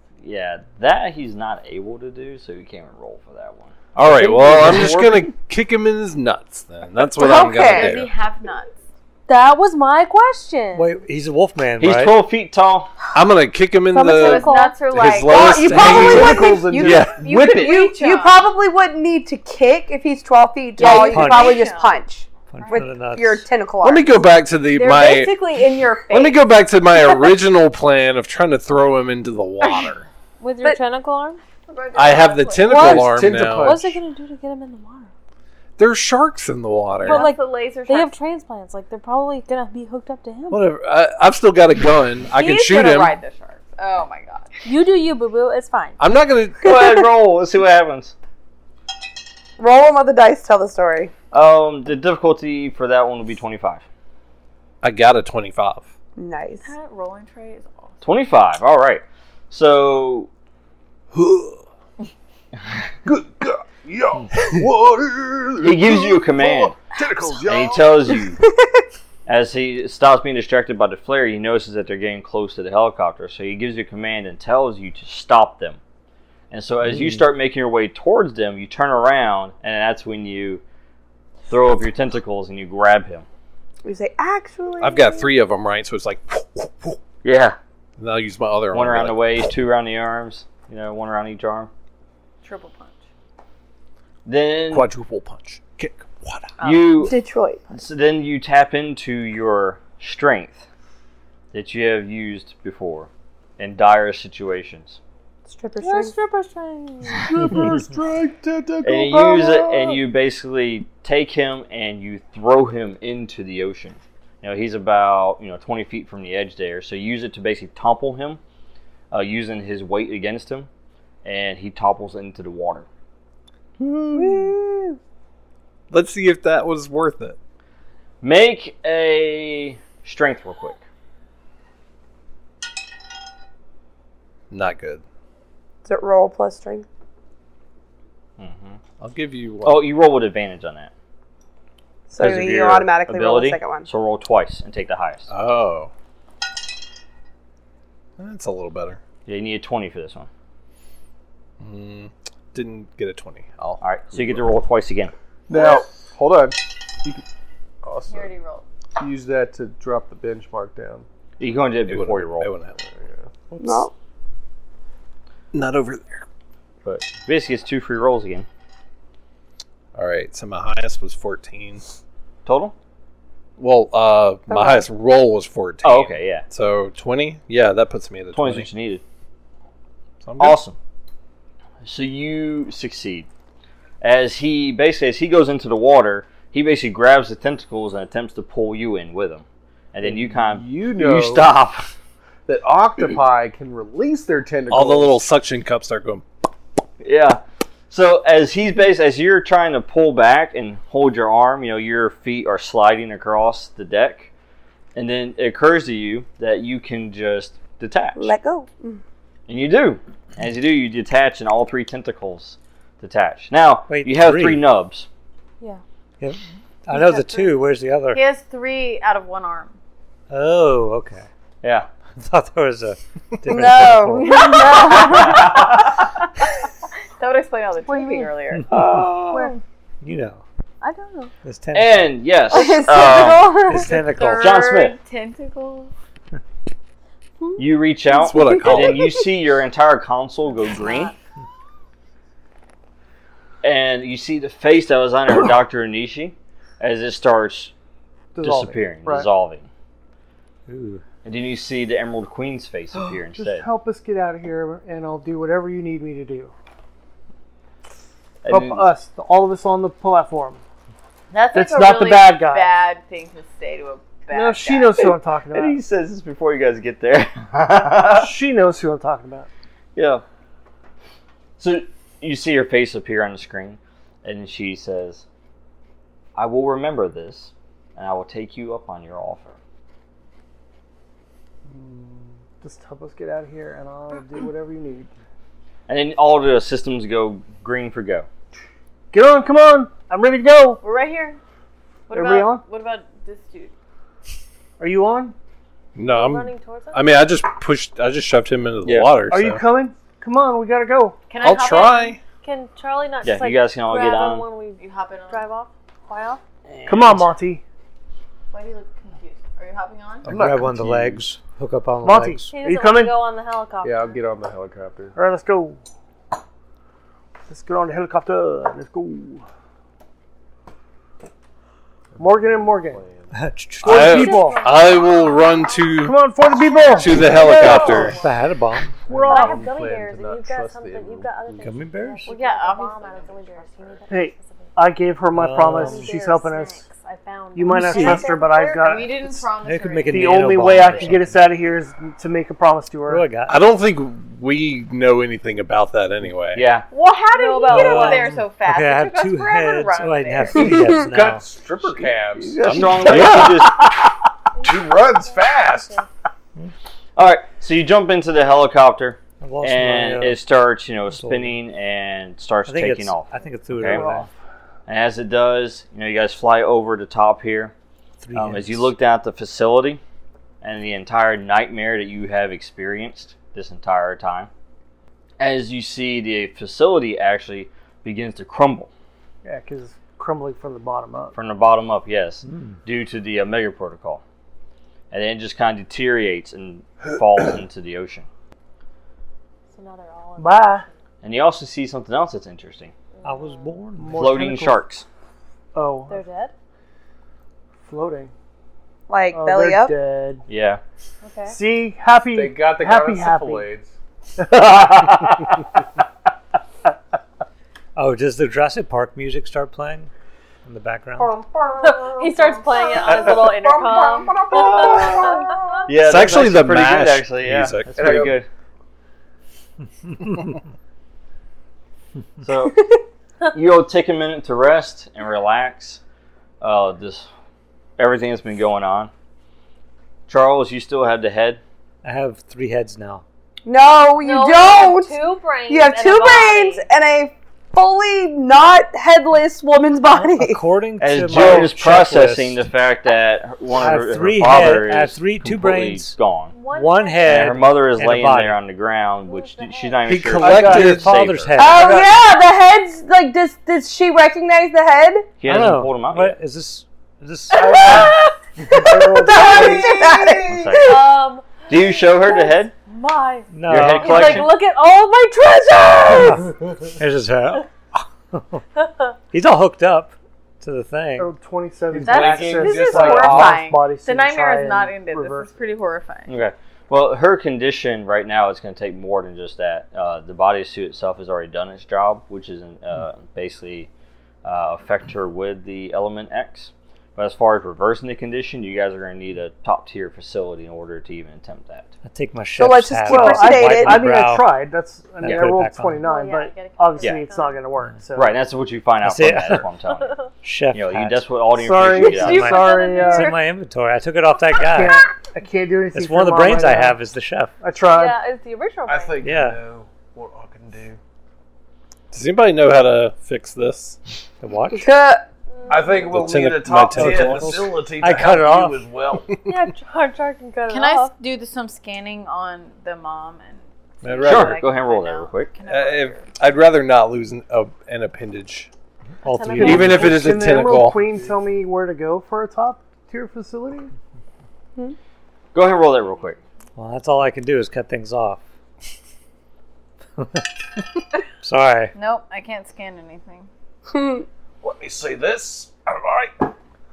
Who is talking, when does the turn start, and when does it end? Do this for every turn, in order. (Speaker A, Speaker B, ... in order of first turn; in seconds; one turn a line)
Speaker A: 0.2-3.8
Speaker B: 4.0-8.1
Speaker C: 4.0-5.3
Speaker D: 7.2-8.0
Speaker E: 7.2-8.7
Speaker F: 9.3-10.9
Speaker G: 10.8-12.2
Speaker A: 11.8-12.9
Speaker B: 13.1-17.8
Speaker D: 13.9-14.5
Speaker F: 14.0-14.8
Speaker E: 14.2-16.1
Speaker D: 15.2-22.3
Speaker C: 15.6-17.1
Speaker E: 17.1-18.4
Speaker E: 20.8-22.0
Speaker F: 20.8-21.3
Speaker G: 20.9-21.7
Speaker G: 22.5-23.4
Speaker D: 23.0-24.1
Speaker B: 23.8-25.4
Speaker E: 24.7-26.5
Speaker B: 26.1-30.1
Speaker E: 29.6-29.9
Speaker F: 30.4-31.4
Speaker E: 31.7-32.8
Speaker B: 31.9-33.9
Speaker F: 32.7-35.1
Speaker C: 32.7-33.9
Speaker B: 35.8-37.3
Speaker E: 37.0-38.1
Speaker F: 37.0-40.6
Speaker B: 40.5-43.2
Speaker E: 42.3-44.6
Speaker F: 44.6-46.0
Speaker B: 46.0-46.8
Speaker A: 46.6-48.1
Speaker D: 49.6-51.1
Speaker A: 51.3-53.8
Speaker B: 54.8-55.9
Speaker D: 56.2-56.7
Speaker E: 56.6-58.0
Speaker A: 58.0-60.3
Speaker C: 61.1-61.6
Speaker C: 63.0-68.1
Speaker A: 65.6-66.8
Speaker A: 67.4-68.4
Speaker A: 69.3-75.8
Speaker A: 76.5-80.6
Speaker A: 81.5-83.3
Speaker D: 83.8-85.3
Speaker B: 84.8-87.0
Speaker A: 87.2-87.6
Speaker B: 88.0-89.5
Speaker A: 88.7-91.7
Speaker E: 92.4-93.0
Speaker A: 94.3-94.9
Speaker B: 94.7-96.5
Speaker E: 96.6-96.9
Speaker A: 96.6-97.2
Speaker D: 97.0-97.6
Speaker A: 97.7-100.7
Speaker A: 101.5-105.0
Speaker D: 105.5-106.1
Speaker F: 105.8-107.7
Speaker C: 107.2-110.0
Speaker A: 108.8-118.4
Speaker A: 119.1-120.7
Speaker A: 121.2-122.9
Speaker B: 123.8-124.6
Speaker B: 125.9-127.4
Speaker A: 128.2-130.8
Speaker B: 134.5-135.0
Speaker D: 135.8-136.9
Speaker A: 138.4-138.8
Speaker B: 139.0-139.9
Speaker A: 139.6-140.9
Speaker D: 142.1-143.9
Speaker A: 142.2-145.3
Speaker B: 145.3-145.9
Speaker B: 148.2-149.0
Speaker A: 149.3-150.3
Speaker B: 151.6-154.4
Speaker A: 153.8-155.1
Speaker C: 155.5-157.2
Speaker C: 157.8-158.3
Speaker E: 158.1-158.7
Speaker C: 159.0-161.1
Speaker A: 161.4-162.5
Speaker B: 161.9-162.8
Speaker C: 162.8-163.3
Speaker B: 163.5-163.9
Speaker D: 163.6-163.9
Speaker B: 165.5-166.2
Speaker A: 166.8-168.5
Speaker B: 169.9-171.8
Speaker A: 172.4-172.8
Speaker B: 173.6-178.7
Speaker D: 174.5-174.8
Speaker A: 175.8-176.5
Speaker A: 178.3-179.0
Speaker B: 180.2-180.6
Speaker A: 180.4-180.8
Speaker A: 181.8-183.3
Speaker A: 184.0-191.9
Speaker C: 190.0-191.5
Speaker C: 192.5-195.2
Speaker B: 194.7-196.2
Speaker A: 197.0-204.3
Speaker A: 204.9-208.3
Speaker D: 208.2-209.0
Speaker A: 209.5-215.1
Speaker G: 213.9-214.6
Speaker G: 216.2-218.2
Speaker F: 216.9-217.5
Speaker E: 218.1-219.8
Speaker G: 220.3-221.3
Speaker A: 221.6-221.9
Speaker G: 222.2-224.4
Speaker D: 223.4-225.6
Speaker E: 224.3-225.7
Speaker A: 224.9-226.0
Speaker E: 227.2-228.7
Speaker F: 227.9-228.3
Speaker G: 228.6-228.9
Speaker A: 228.7-229.4
Speaker F: 229.3-229.6
Speaker G: 230.0-230.4
Speaker F: 230.8-231.3
Speaker G: 231.4-232.2
Speaker A: 231.7-233.6
Speaker D: 232.5-234.0
Speaker G: 233.5-234.6
Speaker E: 233.9-235.9
Speaker A: 234.3-235.0
Speaker A: 237.6-241.1
Speaker B: 238.1-239.2
Speaker D: 238.3-239.1
Speaker F: 240.8-241.1
Speaker A: 243.6-247.7
Speaker H: 248.3-249.3
Speaker A: 248.4-249.7
Speaker G: 250.7-251.0
Speaker A: 251.2-253.7
Speaker H: 253.3-256.5
Speaker A: 258.4-258.9
Speaker H: 258.5-260.6
Speaker E: 261.3-265.1
Speaker H: 261.5-262.7
Speaker H: 264.3-265.8
Speaker A: 265.5-268.3
Speaker H: 268.0-269.5
Speaker A: 269.9-270.2
Speaker A: 271.6-275.2
Speaker A: 276.4-279.6
Speaker H: 281.7-285.1
Speaker A: 285.9-288.3
Speaker H: 289.1-290.8
Speaker E: 290.8-291.4
Speaker E: 292.1-293.7
Speaker H: 292.1-292.6
Speaker H: 294.8-295.4
Speaker B: 295.9-299.6
Speaker F: 296.1-297.0
Speaker A: 298.8-299.1
Speaker H: 299.3-301.2
Speaker E: 301.3-302.2
Speaker B: 301.4-302.2
Speaker F: 302.4-306.4
Speaker A: 303.2-304.5
Speaker E: 304.8-305.5
Speaker A: 306.7-307.2
Speaker H: 306.9-307.6
Speaker E: 308.5-310.3
Speaker C: 310.3-311.2
Speaker G: 310.3-312.5
Speaker H: 312.0-313.1
Speaker F: 312.5-314.2
Speaker C: 313.8-315.2
Speaker H: 315.2-315.8
Speaker H: 317.5-319.4
Speaker C: 322.1-323.3
Speaker H: 322.2-323.0
Speaker G: 323.3-324.4
Speaker H: 323.8-324.6
Speaker B: 323.8-326.2
Speaker F: 323.9-328.3
Speaker H: 326.0-327.3
Speaker B: 326.9-328.2
Speaker E: 327.2-328.3
Speaker G: 327.4-329.0
Speaker C: 327.6-328.1
Speaker C: 329.0-331.7
Speaker H: 329.1-329.7
Speaker F: 329.3-334.7
Speaker G: 331.6-332.3
Speaker E: 332.2-334.1
Speaker H: 334.1-336.8
Speaker G: 335.3-336.1
Speaker F: 335.6-339.0
Speaker H: 337.6-339.2
Speaker G: 337.7-338.3
Speaker E: 338.8-341.2
Speaker G: 339.2-341.5
Speaker H: 340.1-343.3
Speaker G: 343.1-343.6
Speaker B: 343.5-346.7
Speaker A: 346.5-346.9
Speaker E: 346.9-350.7
Speaker F: 347.4-348.3
Speaker G: 347.7-351.5
Speaker C: 350.6-353.4
Speaker D: 350.6-350.9
Speaker A: 352.4-353.9
Speaker B: 352.6-353.9
Speaker F: 354.6-356.1
Speaker C: 354.6-356.1
Speaker A: 357.2-364.1
Speaker G: 359.4-360.4
Speaker G: 361.1-361.6
Speaker G: 362.7-364.3
Speaker C: 363.9-364.3
Speaker A: 364.9-367.7
Speaker G: 368.2-368.9
Speaker A: 368.3-370.0
Speaker A: 370.6-374.5
Speaker A: 375.4-378.9
Speaker H: 379.4-381.4
Speaker A: 381.3-384.2
Speaker G: 382.5-382.8
Speaker A: 385.1-388.3
Speaker F: 389.7-391.0
Speaker H: 390.4-390.9
Speaker A: 391.2-392.9
Speaker F: 393.1-393.8
Speaker G: 393.2-394.3
Speaker H: 394.0-394.8
Speaker A: 394.1-395.1
Speaker H: 395.7-396.2
Speaker F: 396.1-396.5
Speaker H: 397.8-398.3
Speaker D: 399.1-399.9
Speaker H: 399.3-400.4
Speaker A: 400.5-400.8
Speaker F: 401.2-401.6
Speaker H: 401.5-403.7
Speaker C: 402.3-403.9
Speaker A: 404.5-405.6
Speaker G: 407.9-410.1
Speaker G: 410.6-411.4
Speaker C: 411.2-412.1
Speaker F: 411.8-415.7
Speaker D: 412.8-415.6
Speaker C: 413.1-413.7
Speaker C: 414.4-415.5
Speaker A: 415.9-418.5
Speaker B: 415.9-418.3
Speaker C: 417.9-418.4
Speaker A: 422.4-422.8
Speaker A: 423.5-426.0
Speaker A: 426.6-427.3
Speaker A: 428.0-429.1
Speaker A: 430.3-431.6
Speaker G: 432.0-433.2
Speaker D: 433.6-440.6
Speaker F: 434.2-436.9
Speaker G: 440.1-442.7
Speaker A: 441.0-446.5
Speaker B: 441.4-441.6
Speaker G: 443.7-446.2
Speaker F: 446.5-447.6
Speaker G: 446.7-448.6
Speaker A: 447.2-451.5
Speaker F: 449.3-450.1
Speaker B: 450.1-451.5
Speaker H: 450.3-451.0
Speaker G: 450.4-452.1
Speaker D: 451.6-455.3
Speaker H: 451.6-452.1
Speaker A: 455.4-456.4
Speaker G: 455.4-458.1
Speaker D: 457.6-458.1
Speaker C: 457.8-458.1
Speaker D: 458.7-461.1
Speaker C: 458.7-460.9
Speaker A: 460.5-461.0
Speaker F: 460.9-466.5
Speaker A: 461.7-462.7
Speaker G: 463.5-464.5
Speaker A: 463.7-464.5
Speaker G: 466.0-468.6
Speaker F: 468.8-469.1
Speaker G: 469.3-471.3
Speaker H: 471.2-475.6
Speaker C: 471.9-473.7
Speaker E: 472.0-476.3
Speaker A: 476.3-483.9
Speaker A: 484.4-491.9
Speaker G: 492.0-494.5
Speaker D: 492.6-494.0
Speaker H: 493.1-498.4
Speaker G: 495.2-496.0
Speaker F: 496.0-497.6
Speaker A: 498.1-500.2
Speaker G: 499.0-499.7
Speaker F: 500.0-500.3
Speaker G: 500.4-501.3
Speaker A: 500.7-502.6
Speaker H: 501.6-503.4
Speaker G: 501.9-505.1
Speaker F: 502.0-503.4
Speaker H: 504.6-507.0
Speaker G: 505.9-507.5
Speaker H: 507.6-508.2
Speaker F: 507.9-509.2
Speaker C: 508.9-511.0
Speaker G: 509.2-509.6
Speaker B: 512.1-514.0
Speaker G: 514.4-514.9
Speaker D: 514.8-515.2
Speaker F: 515.6-516.1
Speaker C: 515.7-519.3
Speaker B: 516.1-517.6
Speaker G: 516.9-518.9
Speaker F: 519.5-521.1
Speaker E: 520.7-526.4
Speaker B: 524.0-524.6
Speaker A: 524.2-525.5
Speaker B: 525.6-528.7
Speaker G: 529.2-530.7
Speaker F: 529.2-530.4
Speaker B: 529.6-531.0
Speaker H: 529.6-533.9
Speaker C: 530.5-531.4
Speaker A: 535.5-536.4
Speaker G: 536.8-538.4
Speaker G: 540.2-540.5
Speaker G: 541.4-541.9
Speaker E: 542.0-543.5
Speaker D: 543.9-544.3
Speaker C: 544.6-546.5